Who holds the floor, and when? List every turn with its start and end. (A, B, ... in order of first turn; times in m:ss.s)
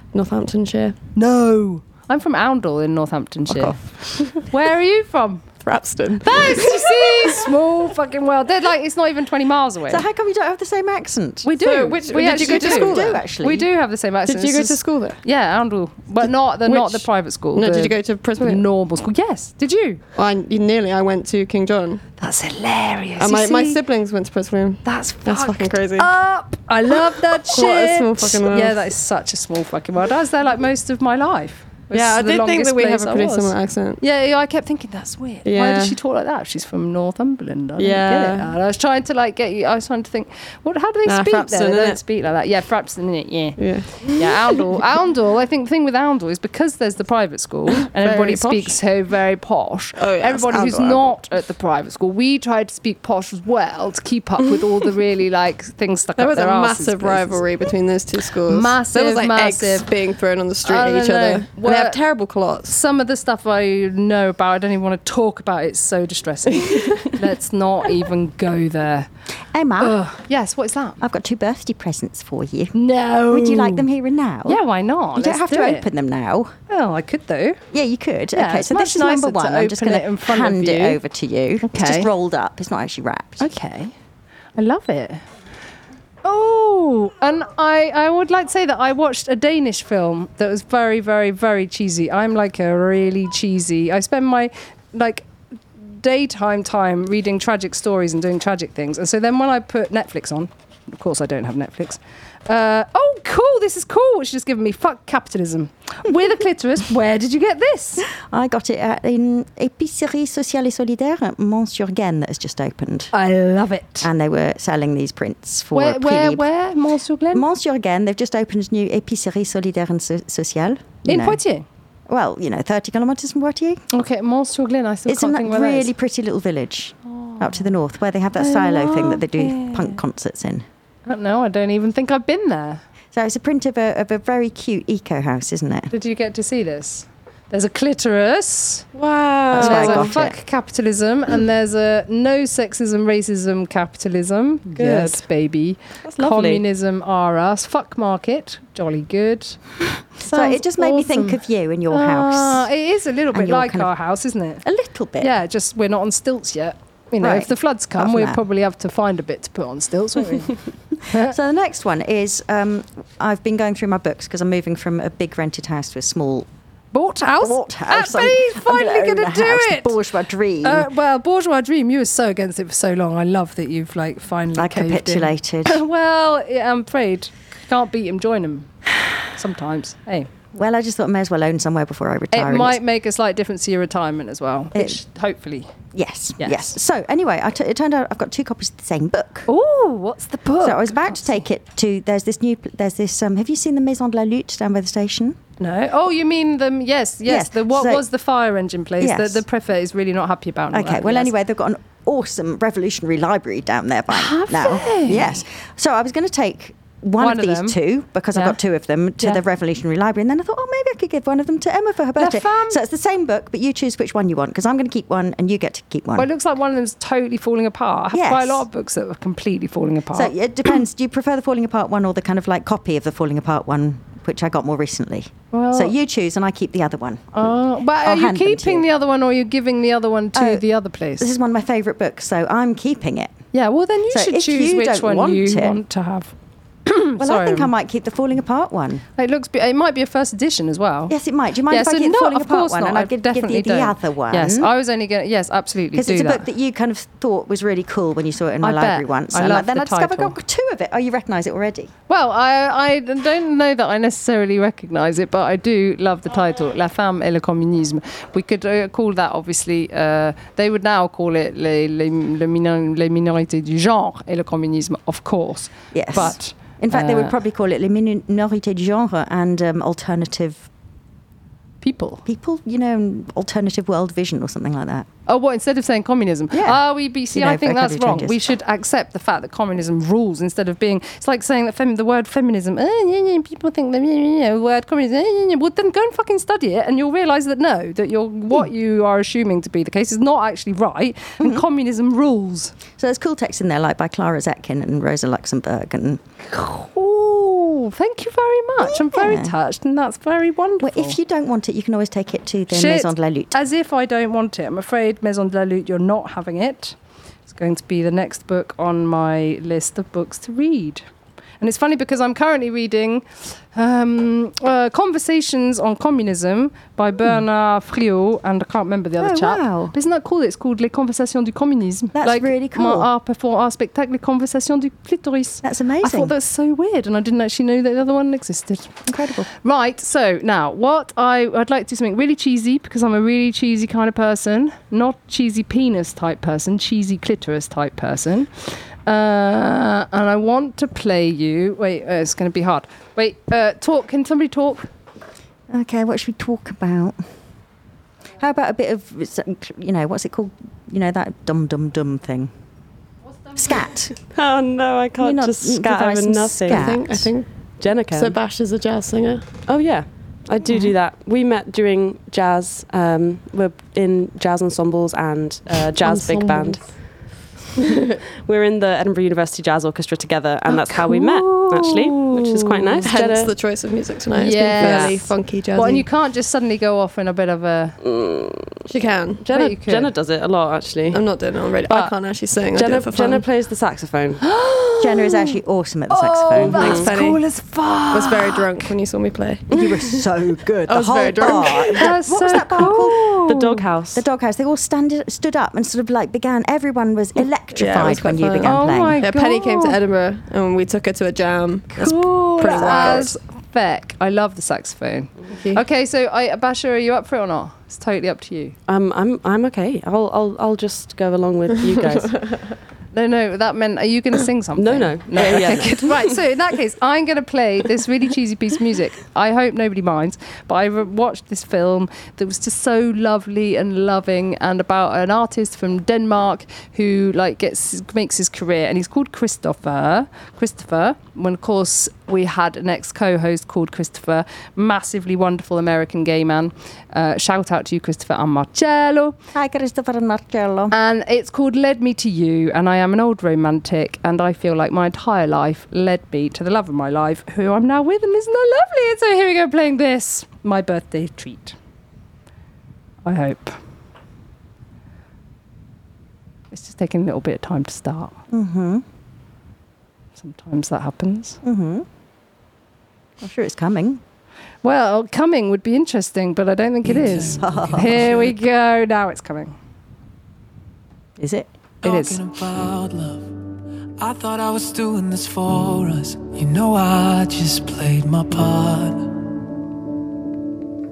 0:00.1-0:01.0 A
0:01.1-0:05.4 B
0:03.5-0:04.5 A
0:05.6-0:07.5 A
0:06.2-0:10.0 B
0:09.9-0:11.5 C
0:11.4-0:20.0 B
0:11.6-0:13.2 A
0:12.2-0:13.7 C
0:14.2-0:15.2 A
0:16.2-0:18.6 A
0:20.1-0:22.0 A
0:22.2-0:23.8 B
0:23.2-0:26.1 A
0:24.8-0:57.5 B
0:26.9-0:28.9 A
0:31.9-0:34.0 A
0:35.4-0:36.0 A
0:37.8-0:38.6 A
0:41.0-0:42.0 A
0:43.6-0:44.7 A
0:47.8-0:48.8 A
0:50.0-0:51.2 A
0:54.4-0:54.9 A
0:56.2-1:02.8 A
0:58.4-0:59.9 B
1:00.6-1:02.0 B
1:02.6-1:09.1 B
1:06.7-1:07.1 A
1:09.5-1:10.0 C
1:09.8-1:11.0 B
1:11.0-1:12.7 C
1:12.7-1:13.9 B
1:13.3-1:14.6 C
1:14.4-1:15.8 B
1:15.1-1:16.5 C
1:16.7-1:17.6 B
1:17.7-1:23.5 C
1:18.3-1:21.0 B
1:21.6-1:22.1 B
1:23.4-1:23.9 B
1:24.6-1:25.2 B
1:26.2-1:48.1 B
1:48.1-1:53.1 C
1:53.1-1:54.1 B
1:54.0-1:56.4 C
1:55.7-1:57.4 B
1:57.3-2:01.4 C
2:01.0-2:01.6 B
2:02.1-2:03.8 C
2:03.9-2:05.9 B
2:05.1-2:10.6 C
2:07.1-2:07.7 B
2:08.4-2:10.0 B
2:11.0-2:12.8 B
2:13.1-2:15.9 C
2:15.9-2:18.8 B
2:18.9-2:20.2 D
2:19.5-2:20.4 C
2:19.5-2:29.6 B
2:24.8-2:25.2 D
2:26.0-2:26.6 D
2:30.2-2:34.6 B
2:30.3-2:32.7 C
2:33.3-2:33.9 C
2:34.6-2:35.3 C
2:35.2-2:41.3 B
2:37.2-2:38.4 C
2:41.2-2:46.5 C
2:46.9-2:50.0 B
2:47.4-2:50.9 C
2:50.6-2:58.7 B
2:54.6-2:55.8 C
2:59.3-3:00.3 B
3:00.5-3:02.8 C
3:02.3-3:05.7 B
3:04.7-3:05.0 C
3:05.9-3:09.5 C
3:06.4-3:06.7 B
3:09.5-3:11.3 B
3:10.6-3:15.4 C
3:15.6-3:21.3 B
3:17.2-3:18.0 C
3:19.0-3:19.4 C
3:20.7-3:36.3 C
3:24.1-3:25.4 B
3:27.2-3:27.8 B
3:32.1-3:32.8 B
3:36.2-3:40.3 B
3:38.1-3:38.6 C
3:40.1-3:48.8 C
3:45.5-3:45.9 B
3:47.3-3:51.3 B
3:50.3-3:50.6 C
3:51.2-3:53.4 C
3:53.5-3:56.3 B
3:54.1-3:55.8 C
3:56.9-3:57.7 B
3:57.2-3:59.0 C
3:59.2-4:01.1 B
4:01.1-4:04.7 C
4:01.7-4:06.4 B
4:05.9-4:11.9 C
4:08.6-4:10.3 B
4:12.1-4:27.3 B
4:25.9-4:30.7 C
4:31.8-4:32.2 B
4:32.2-4:35.1 C
4:35.3-4:52.8 B
4:36.5-4:38.4 C
4:51.4-4:51.6 C
4:52.9-4:56.2 C
4:56.5-5:01.2 B
4:58.8-4:59.5 C
5:00.8-5:03.6 C
5:02.7-5:07.0 B
5:07.5-5:11.0 B
5:11.6-5:29.0 B
5:19.2-5:19.9 C
5:22.2-5:23.1 C
5:25.6-5:26.3 C
5:29.1-5:29.5 C
5:29.6-5:44.9 B
5:45.7-5:47.2 C
5:48.4-5:52.5 C
5:53.6-5:54.1 C
5:54.3-5:57.0 D
5:55.2-5:57.3 C
5:56.7-5:57.5 A
5:57.8-5:58.4 D
5:58.1-5:59.4 A
5:59.6-6:07.3 D
6:00.7-6:00.9 C
6:06.0-6:07.0 A
6:08.4-6:13.5 D
6:10.7-6:13.1 B
6:13.0-6:16.1 A
6:14.3-6:18.0 B
6:14.8-6:15.2 D
6:18.0-6:18.8 D
6:18.9-6:19.5 A
6:19.4-6:21.2 D
6:19.5-6:20.1 B
6:21.1-6:23.4 A
6:22.7-6:24.4 D
6:24.4-6:25.6 B
6:25.0-6:27.0 C
6:26.1-6:28.9 B
6:26.6-6:27.1 D
6:26.7-6:27.4 A
6:28.1-6:30.2 A
6:29.7-6:33.4 C
6:30.9-6:32.1 A
6:31.7-6:33.8 B
6:33.5-6:34.2 D
6:34.1-6:39.2 C
6:37.7-6:43.4 A
6:38.6-6:40.0 B
6:42.0-6:48.7 B
6:42.0-6:43.3 C
6:45.5-6:45.8 A
6:48.9-6:52.6 D
6:53.1-7:19.3 B
6:54.8-6:56.4 D
7:19.6-7:20.9 C
7:20.9-7:31.7 B
7:33.2-7:33.8 B
7:36.7-7:38.4 B
7:38.5-7:39.0 C
7:40.4-7:41.6 B
7:41.6-7:42.0 C
7:43.4-7:44.2 C
7:44.8-7:49.8 B
7:47.0-7:48.3 C
7:47.2-7:48.6 E
7:51.4-7:51.7 C
7:52.0-7:52.4 B
7:52.0-7:53.5 E
7:54.2-7:59.3 E